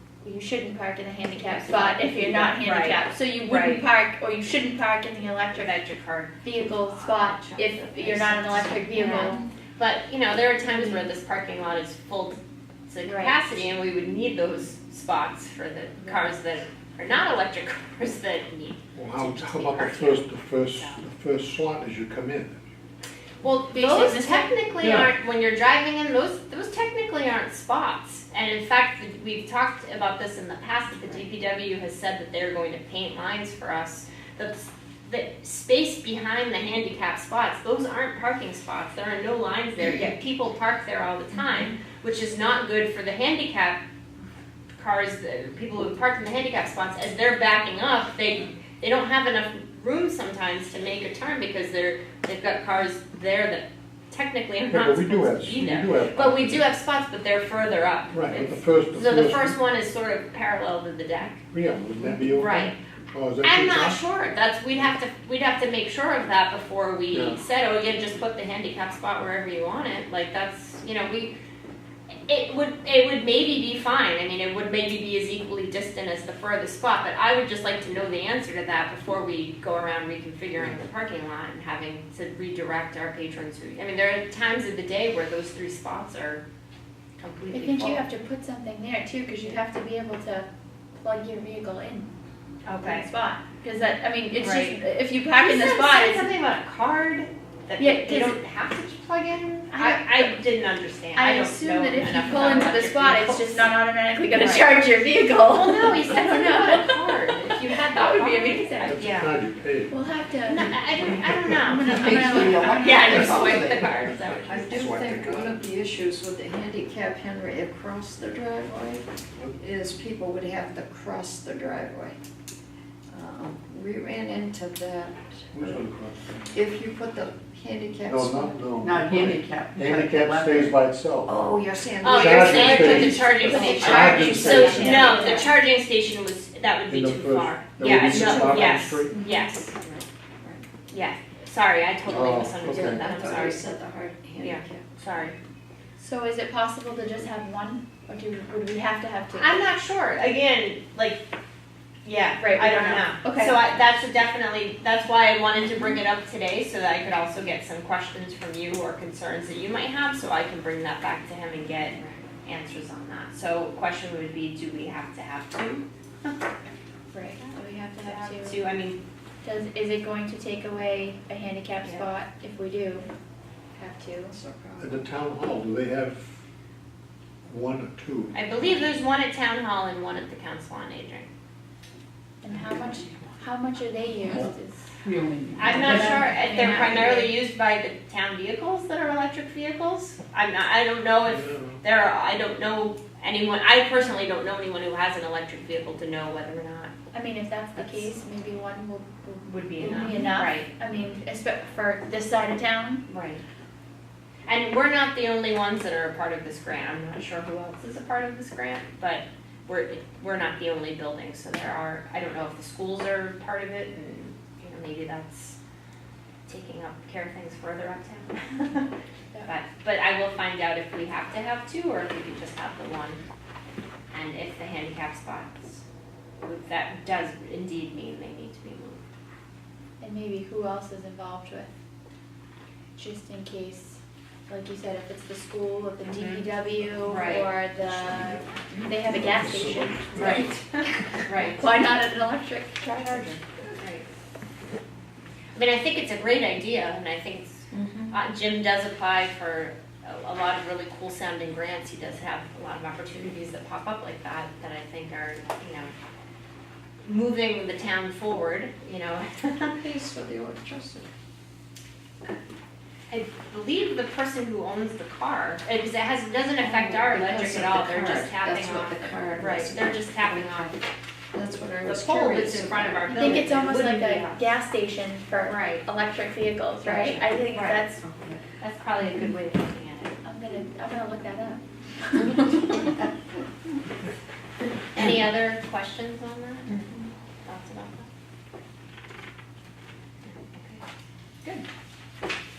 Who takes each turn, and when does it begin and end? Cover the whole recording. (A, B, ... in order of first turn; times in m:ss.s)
0:00.2-0:05.8 A
0:01.4-0:03.8 B
0:05.6-0:21.0 B
0:06.4-0:09.5 A
0:10.7-0:11.0 A
0:13.0-0:13.4 A
0:19.0-0:22.6 C
0:23.4-0:43.8 B
0:23.7-0:24.5 A
0:24.8-0:25.1 C
0:44.8-1:01.4 B
0:54.7-0:56.7 C
0:58.1-0:59.6 C
1:01.5-1:04.0 C
1:02.3-1:02.8 B
1:03.4-1:11.4 B
1:07.1-1:07.4 C
1:12.3-1:26.4 B
1:27.2-1:28.1 B
1:27.5-1:32.1 A
1:32.7-1:33.0 B
1:32.8-1:36.3 A
1:34.4-1:34.8 B
1:35.4-1:43.7 B
1:37.8-1:38.4 A
1:39.7-1:40.4 A
1:41.2-1:49.0 A
1:44.3-1:44.8 B
1:45.5-1:49.3 B
1:48.8-1:49.9 C
1:49.9-1:50.9 A
1:50.5-1:55.2 B
1:51.4-1:53.8 A
1:51.8-2:02.2 D
1:52.3-1:53.9 E
1:54.3-1:55.6 C
2:03.1-2:05.8 D
2:05.5-2:06.6 C
2:06.5-2:08.6 D
2:08.0-2:11.3 C
2:08.8-2:10.7 E
2:11.3-2:15.5 D
2:12.0-2:20.0 B
2:12.0-2:15.1 C
2:13.6-2:15.4 A
2:16.9-2:19.2 C
2:17.8-2:18.8 D
2:19.1-2:19.5 A
2:20.9-2:23.6 B
2:22.1-2:23.0 C
2:22.6-2:24.9 D
2:24.4-2:25.4 B
2:26.0-2:29.6 A
2:29.3-2:31.2 B
2:32.0-2:46.4 B
2:32.4-2:33.6 A
2:47.1-2:48.6 A
2:47.4-2:49.0 B
2:49.4-2:53.1 A
2:53.8-2:54.4 A
2:54.3-2:55.0 D
2:54.8-2:56.3 C
2:57.5-2:58.4 C
2:58.3-3:01.3 B
3:02.4-3:05.0 A
3:02.5-3:03.1 B
3:05.0-3:06.9 E
3:05.6-3:16.9 B
3:05.6-3:07.4 A
3:11.3-3:11.8 C
3:17.1-3:23.0 A
3:17.8-3:18.1 B
3:19.4-3:20.7 B
3:23.1-3:23.4 B
3:24.5-3:35.6 B
3:36.5-3:38.9 B
3:39.4-3:43.2 B
3:44.1-3:45.8 B
3:46.4-3:49.0 B
3:50.0-3:51.7 A
3:53.0-4:00.5 A
3:56.1-3:56.5 B
3:57.0-3:57.5 B
3:57.8-3:58.4 C
3:59.1-4:00.5 C
4:00.2-4:01.6 B
4:01.5-4:03.4 A
4:03.1-4:04.1 B
4:05.6-4:15.9 B
4:07.7-4:08.2 D
4:17.0-4:19.8 B
4:19.7-4:21.1 D
4:23.1-4:30.7 B
4:26.6-4:33.8 D
4:31.8-4:34.5 B
4:33.1-4:38.0 A
4:35.4-4:35.8 B
4:36.8-4:37.8 B
4:38.0-4:38.4 D
4:38.6-4:40.1 B
4:40.2-4:42.9 A
4:42.2-4:42.9 B
4:44.9-4:48.1 B
4:50.2-4:50.8 B